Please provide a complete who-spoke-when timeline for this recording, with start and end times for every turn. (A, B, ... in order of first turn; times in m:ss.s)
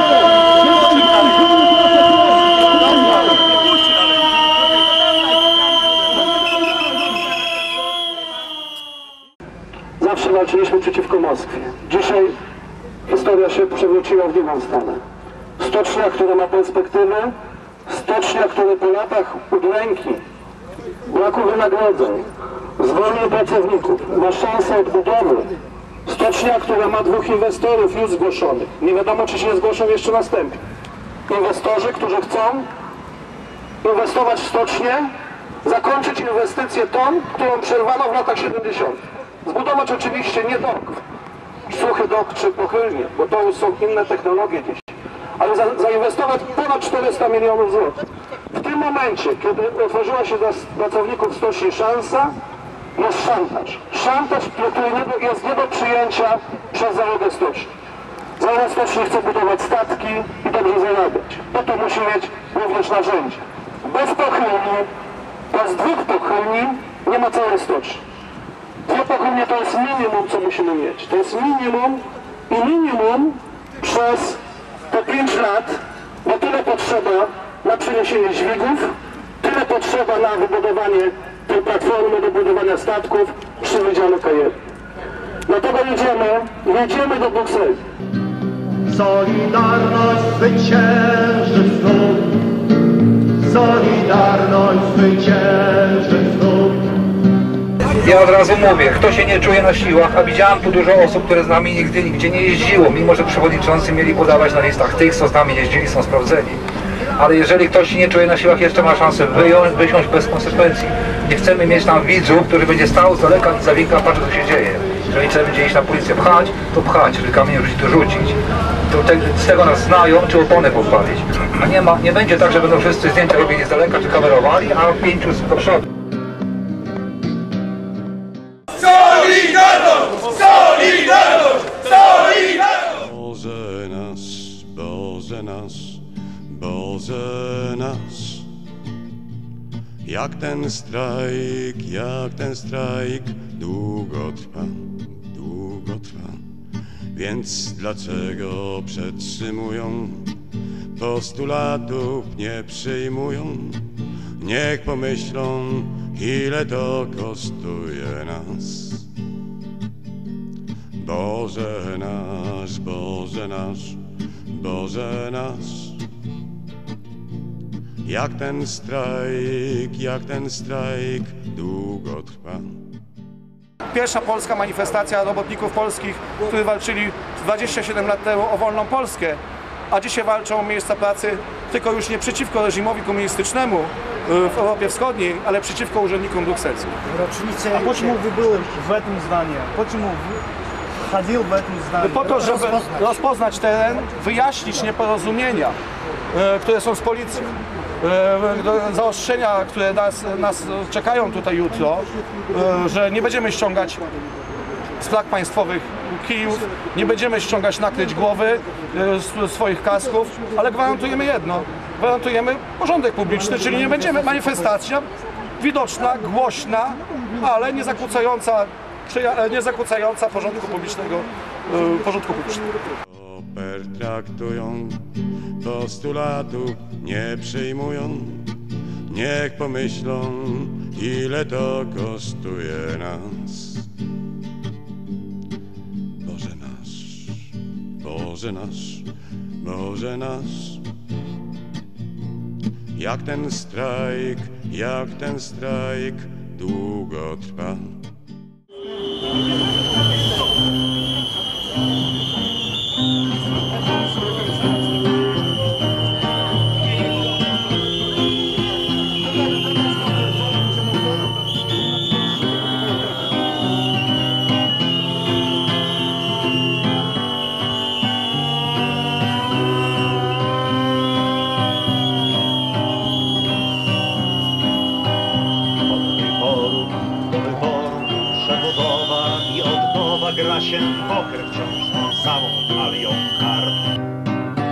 0:10.0-0:12.3 A
0:13.1-0:15.0 A
0:15.6-0:17.4 A
0:17.9-0:20.2 A
0:21.1-0:22.3 A
0:22.8-0:25.5 A
0:26.1-0:30.6 A
0:31.3-0:32.7 A
0:33.8-0:35.1 A
0:35.6-0:41.0 A
0:41.7-0:48.0 A
0:48.5-0:52.3 A
0:53.0-0:57.7 A
0:58.4-1:04.9 A
1:05.5-1:08.0 A
1:08.9-1:14.4 A
1:14.9-1:24.6 A
1:25.5-1:27.8 A
1:28.9-1:32.5 B
1:33.4-1:36.8 B
1:38.0-1:46.6 C
1:47.2-1:58.4 C
1:58.9-2:05.8 C
2:09.3-2:18.5 D
2:20.0-2:26.4 D
2:27.1-2:30.4 D
2:30.9-2:39.1 D
2:41.0-2:46.0 D
2:48.0-2:52.8 D
2:53.9-3:06.9 E
3:07.3-3:10.2 F
3:07.8-3:08.2 E
3:11.2-3:12.4 F
3:12.0-3:15.8 E
3:16.3-3:24.0 E
3:25.0-3:35.1 E
3:35.6-3:42.7 E
3:43.1-3:48.5 D
3:49.1-3:53.9 D
3:56.2-3:59.1 D
3:59.6-4:00.8 D
4:03.0-4:08.0 D
4:35.8-4:43.9 B